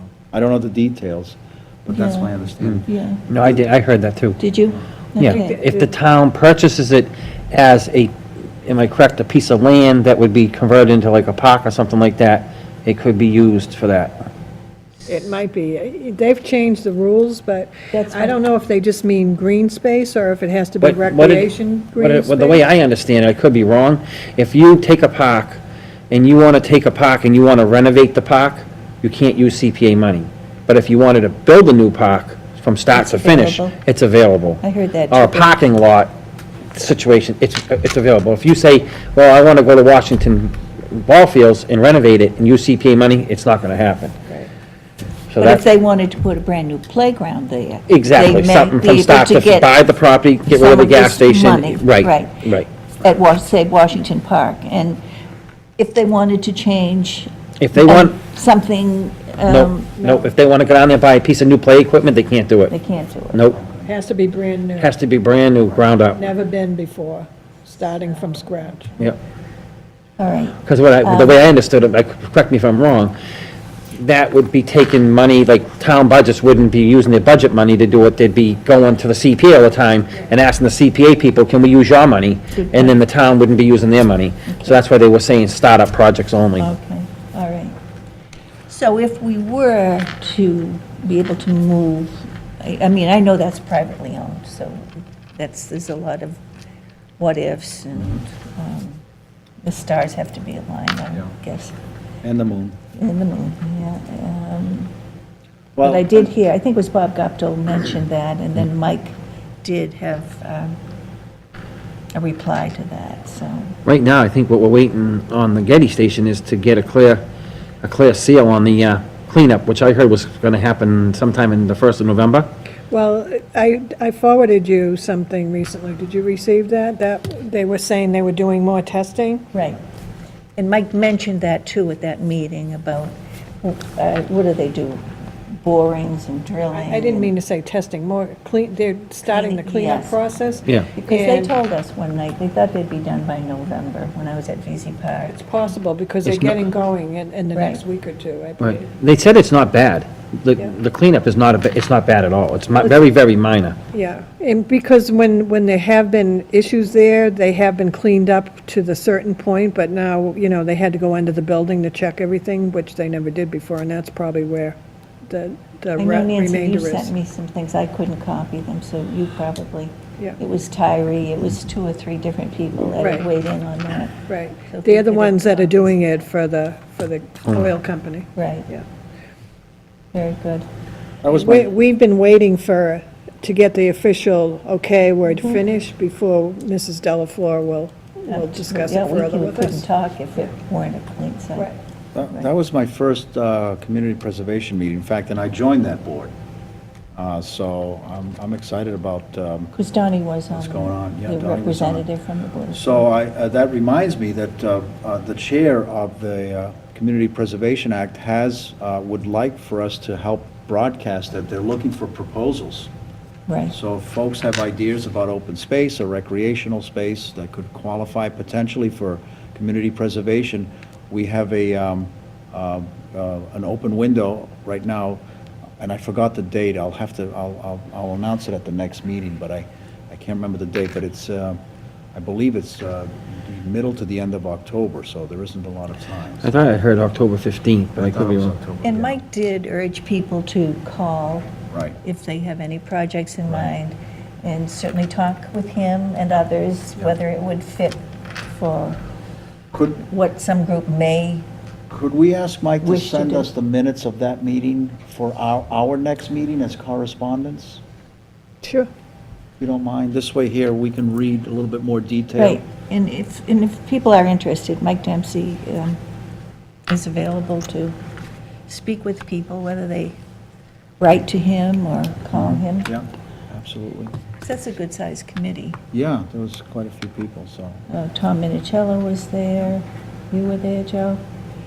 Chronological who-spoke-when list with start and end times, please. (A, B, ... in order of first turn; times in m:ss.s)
0:00.3-0:02.9 A
0:01.9-0:02.3 B
0:02.9-0:03.3 B
0:03.3-0:04.4 C
0:04.4-0:05.6 B
0:05.2-0:08.1 C
0:05.2-0:05.9 D
0:08.6-0:14.3 C
0:15.1-0:22.6 D
0:17.9-0:18.4 B
0:20.8-0:36.2 C
0:32.9-0:33.8 B
0:34.6-0:35.6 B
0:36.7-0:44.2 C
0:45.3-0:45.6 C
0:45.4-0:49.8 B
0:47.9-0:52.7 C
0:50.5-0:55.0 B
0:55.8-1:00.3 B
0:57.6-0:58.2 C
0:59.5-1:02.7 C
1:02.7-1:03.5 B
1:03.3-1:03.6 C
1:03.9-1:04.9 D
1:04.8-1:06.3 C
1:06.2-1:08.9 D
1:10.2-1:11.4 B
1:10.7-1:13.1 C
1:14.0-1:26.7 C
1:22.5-1:23.0 B
1:26.6-1:27.8 B
1:28.7-1:36.4 B
1:37.2-1:39.0 B
1:39.6-1:41.8 B
1:42.2-1:42.8 A
1:42.9-1:44.9 B
1:45.8-1:46.3 A
1:45.8-1:50.8 B
1:52.1-1:53.8 B
1:53.8-1:57.2 C
1:57.8-2:02.5 C
2:02.9-2:09.5 D
2:09.5-2:09.8 B
2:10.6-2:15.0 B
2:15.6-2:17.3 B
2:16.7-2:21.5 D
2:19.3-2:20.2 B
2:21.0-2:25.4 B
2:25.3-2:28.9 D
2:26.2-2:26.6 C
2:27.5-2:27.8 B
2:28.6-2:33.8 C
2:33.9-2:47.1 D
2:46.0-2:55.9 B
2:53.0-2:53.3 D
2:54.3-2:58.8 D
2:58.4-2:58.7 B
3:00.1-3:00.7 B
3:01.2-3:01.7 A
3:01.3-3:09.8 D
3:08.3-3:11.7 B
3:12.2-3:16.3 A
3:17.2-3:19.7 A
3:19.8-3:23.0 B
3:20.5-3:22.0 A
3:22.7-3:32.9 A
3:33.5-3:33.8 B
3:33.7-3:45.2 A
3:45.8-3:51.6 A
3:52.1-3:56.5 A
3:56.4-3:58.6 C
3:58.0-3:59.2 A
3:58.8-4:09.0 B
4:01.7-4:02.0 A
4:09.7-4:10.0 A
4:10.1-4:11.5 B
4:11.9-4:17.8 A
4:12.8-4:13.5 B
4:18.6-4:18.9 D
4:19.6-4:22.6 A
4:22.4-4:26.0 B
4:26.9-4:28.0 B
4:28.7-4:30.2 B
4:31.0-4:32.9 B
4:32.3-4:34.2 A
4:34.4-4:35.8 B
4:35.9-4:37.8 A
4:37.9-4:41.2 B